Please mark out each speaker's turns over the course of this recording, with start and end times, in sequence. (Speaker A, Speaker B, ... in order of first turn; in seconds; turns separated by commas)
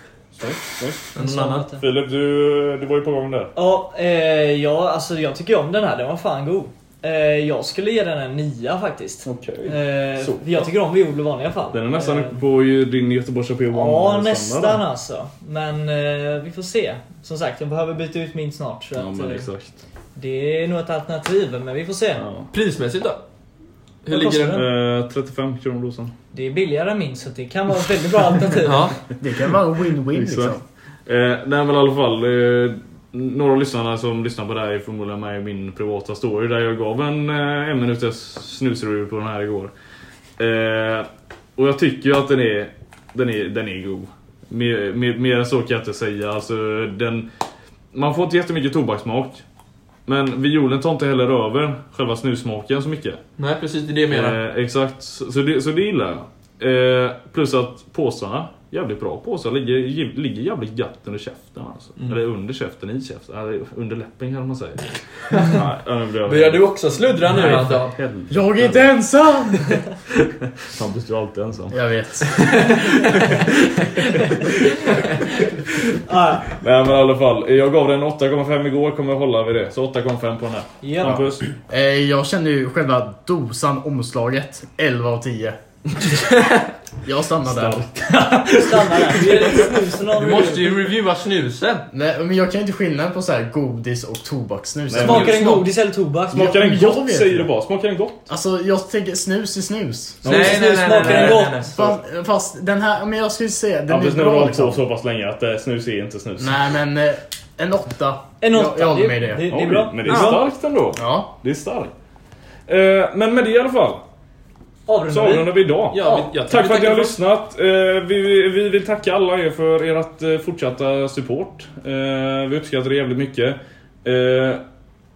Speaker A: 0.3-1.1, Speaker B: 1.1-1.7, Speaker C: 1.2-1.8, Speaker A: 1.7-3.5, Speaker C: 3.5-12.4, Speaker A: 9.2-10.7, Speaker A: 11.7-14.8, Speaker C: 13.7-19.5, Speaker A: 19.0-19.8, Speaker C: 20.2-22.2, Speaker A: 22.2-22.5, Speaker B: 22.5-23.2, Speaker B: 24.1-24.6, Speaker C: 24.1-24.7, Speaker A: 24.4-26.1, Speaker C: 26.3-28.9, Speaker B: 28.6-29.0, Speaker D: 29.2-30.6, Speaker A: 30.1-39.7, Speaker A: 40.4-47.3, Speaker A: 47.9-49.4, Speaker A: 50.1-53.2, Speaker B: 53.4-54.4, Speaker A: 54.1-66.7, Speaker B: 65.3-65.6, Speaker B: 66.2-68.0, Speaker A: 67.2-68.9, Speaker D: 68.3-69.8, Speaker A: 70.6-72.6, Speaker D: 71.7-72.6, Speaker B: 72.4-73.5, Speaker A: 73.2-73.5, Speaker A: 74.3-75.0, Speaker C: 76.0-76.5, Speaker A: 76.5-81.5, Speaker C: 80.8-81.2, Speaker D: 81.7-85.6, Speaker B: 86.1-86.7, Speaker D: 87.0-87.9, Speaker A: 87.5-89.5, Speaker C: 88.5-90.8, Speaker B: 90.1-91.9, Speaker D: 91.9-95.4, Speaker A: 94.9-95.6, Speaker C: 95.0-96.6, Speaker B: 95.3-95.6, Speaker D: 96.3-97.5, Speaker A: 96.3-98.3, Speaker D: 98.3-100.3, Speaker A: 100.2-101.9, Speaker B: 100.2-101.9, Speaker C: 100.3-101.7, Speaker D: 101.7-104.8, Speaker A: 103.9-106.6, Speaker D: 106.4-109.5, Speaker C: 108.4-110.5, Speaker A: 109.5-111.9, Speaker B: 110.1-110.5, Speaker D: 110.9-111.3, Speaker A: 112.7-114.0, Speaker C: 114.9-115.6, Speaker A: 115.1-124.6, Speaker B: 115.9-117.2